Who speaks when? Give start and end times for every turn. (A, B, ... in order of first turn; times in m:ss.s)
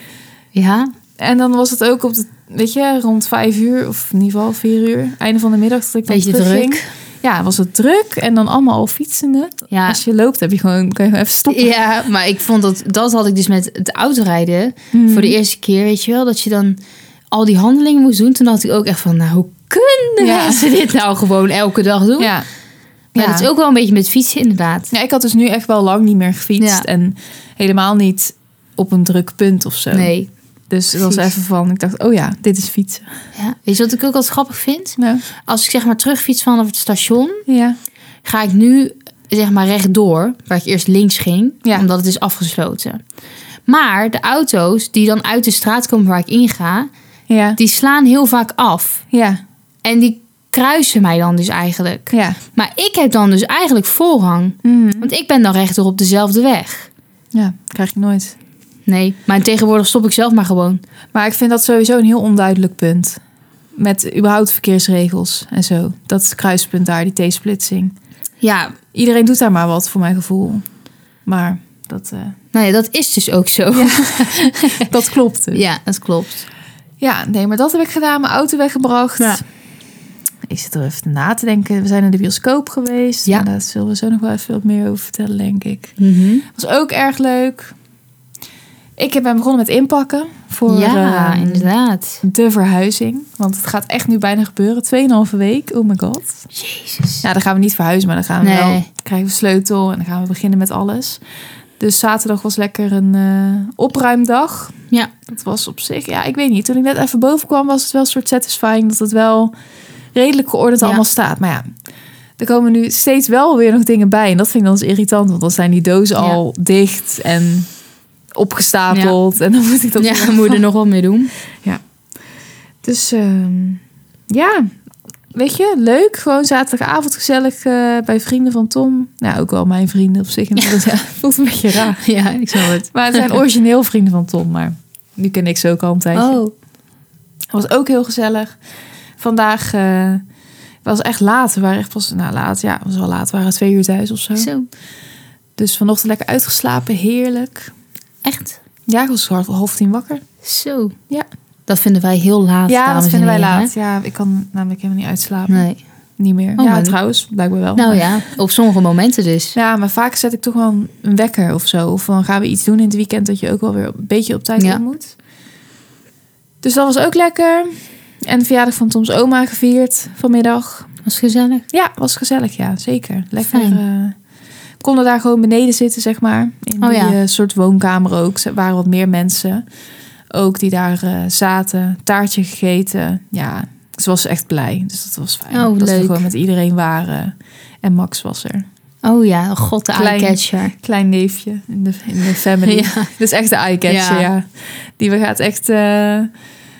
0:00.5-0:00.9 A
0:01.2-0:11.7 B
0:06.1-0:06.9 A
0:09.7-0:10.0 A
0:11.5-0:16.8 A
0:14.9-0:15.4 B
0:17.3-0:22.3 A
0:20.2-0:20.7 B
0:22.2-0:22.5 B
0:23.2-0:23.5 B
0:23.2-0:24.9 A
0:24.9-0:30.1 B
0:26.6-0:26.9 A
0:29.9-0:30.3 A
0:30.7-0:33.1 B
0:30.9-0:31.3 A
0:33.4-0:37.4 A
0:35.0-0:35.2 B
0:37.5-0:37.8 B
0:38.2-0:43.0 A
0:43.7-0:46.9 A
0:47.3-0:47.6 B
0:47.6-0:49.0 A
0:49.1-0:49.4 B
0:49.8-0:56.9 A
0:52.1-0:52.4 B
0:54.6-0:55.1 B
0:57.3-0:58.4 B
0:58.9-1:00.8 A
1:01.1-1:03.2 B
1:03.8-1:08.0 B
1:08.4-1:08.8 A
1:08.9-1:10.6 B
1:11.3-1:12.4 B
1:12.5-1:14.9 A
1:13.7-1:15.6 B
1:15.5-1:16.5 A
1:17.0-1:19.4 B
1:20.5-1:26.0 B
1:26.0-1:26.5 A
1:26.6-1:27.7 B
1:29.0-1:31.7 B
1:30.7-1:32.2 A
1:32.2-1:36.5 B
1:36.6-1:37.2 A
1:37.2-1:41.2 B
1:38.4-1:38.9 A
1:41.8-1:44.7 B
1:45.3-1:49.5 B
1:50.1-1:51.6 B
1:52.4-1:57.7 B
1:58.3-2:00.6 B
1:58.9-1:59.2 A
2:00.0-2:01.3 A
2:02.8-2:04.7 B
2:05.3-2:12.0 B
2:12.0-2:13.3 A
2:12.8-2:16.4 B
2:16.2-2:16.5 A
2:17.5-2:18.6 B
2:19.2-2:20.2 B
2:20.8-2:24.5 B
2:24.4-2:24.7 A
2:25.6-2:27.7 B
2:28.2-2:28.6 A
2:28.9-2:30.2 B
2:30.4-2:31.0 A
2:31.7-2:33.7 A
2:32.7-2:35.6 B
2:35.5-2:35.8 A
2:36.2-2:38.2 B
2:36.6-2:37.0 A
2:37.8-2:39.6 A
2:39.6-2:45.1 B
2:46.6-2:50.9 B
2:51.0-2:51.7 A
2:51.7-2:54.2 B
2:53.5-2:53.8 A
2:54.8-2:59.6 B
2:56.8-2:57.2 A
3:00.3-3:08.6 B
3:05.5-3:06.3 A
3:09.0-3:10.8 A
3:09.9-3:16.3 B
3:12.6-3:13.1 A
3:13.9-3:14.3 A